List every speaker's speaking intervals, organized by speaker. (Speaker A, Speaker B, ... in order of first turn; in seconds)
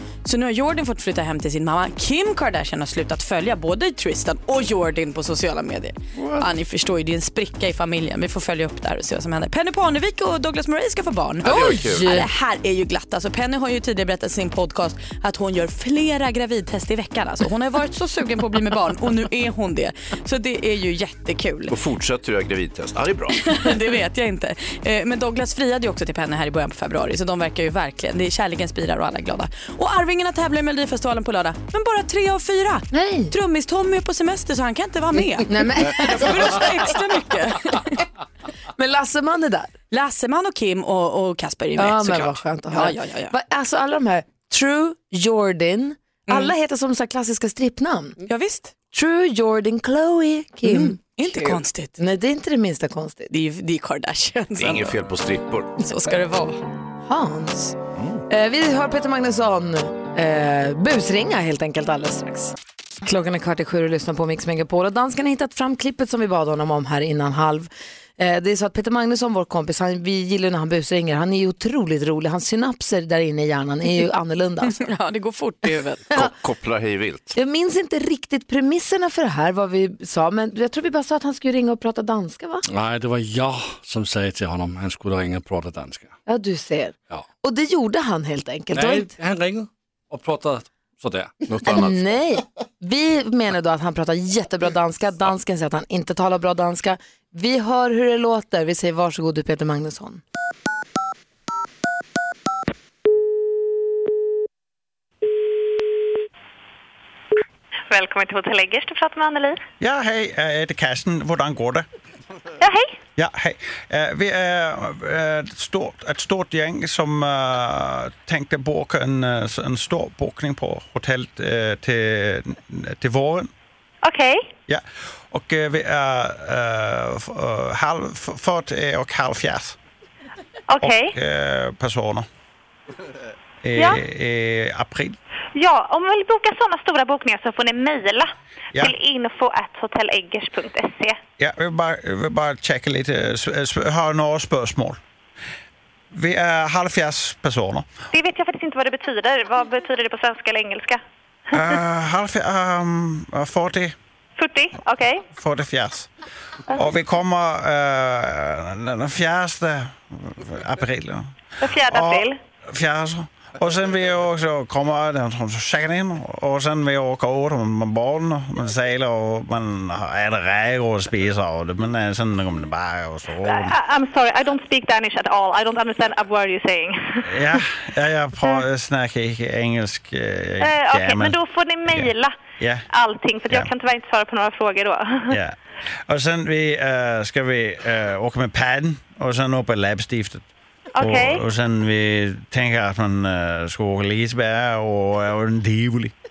Speaker A: 0.2-21.7, 23.4-38.0, 39.9-43.3, 46.3-46.5, 48.2-48.7, 50.6-51.9, 53.3-55.0, 55.8-56.6, 74.6-76.1
Speaker B: 6.2-6.5, 11.4-12.2, 21.7-23.5, 54.6-55.7, 58.0-58.2, 76.1-77.3, 91.5-92.0
Speaker C: 11.4-12.2, 32.9-33.3, 35.5-36.7, 38.7-39.7, 41.8-48.2, 48.9-53.3, 57.0-57.8, 58.3-62.5, 63.0-74.8, 77.3-82.6, 86.2-89.1, 91.7-100.2
Speaker D: 82.7-86.1, 88.7-91.3
Speaker E: 107.9-109.6, 112.6-113.0, 124.0-124.5, 130.7-131.2, 133.8-134.0, 135.5-141.2, 148.1-151.0, 154.4-155.3, 161.6-162.4, 173.4-177.6, 180.6-182.4, 182.9-185.4, 191.0-191.4
Speaker F: 109.8-111.8, 113.2-123.5, 124.7-129.8, 130.8-132.3, 133.6-135.2, 141.4-145.0, 146.1-147.9, 151.5-153.9, 155.3-156.1, 156.7-173.8, 177.2-182.8, 185.3-185.6, 186.1-190.5, 191.0-196.1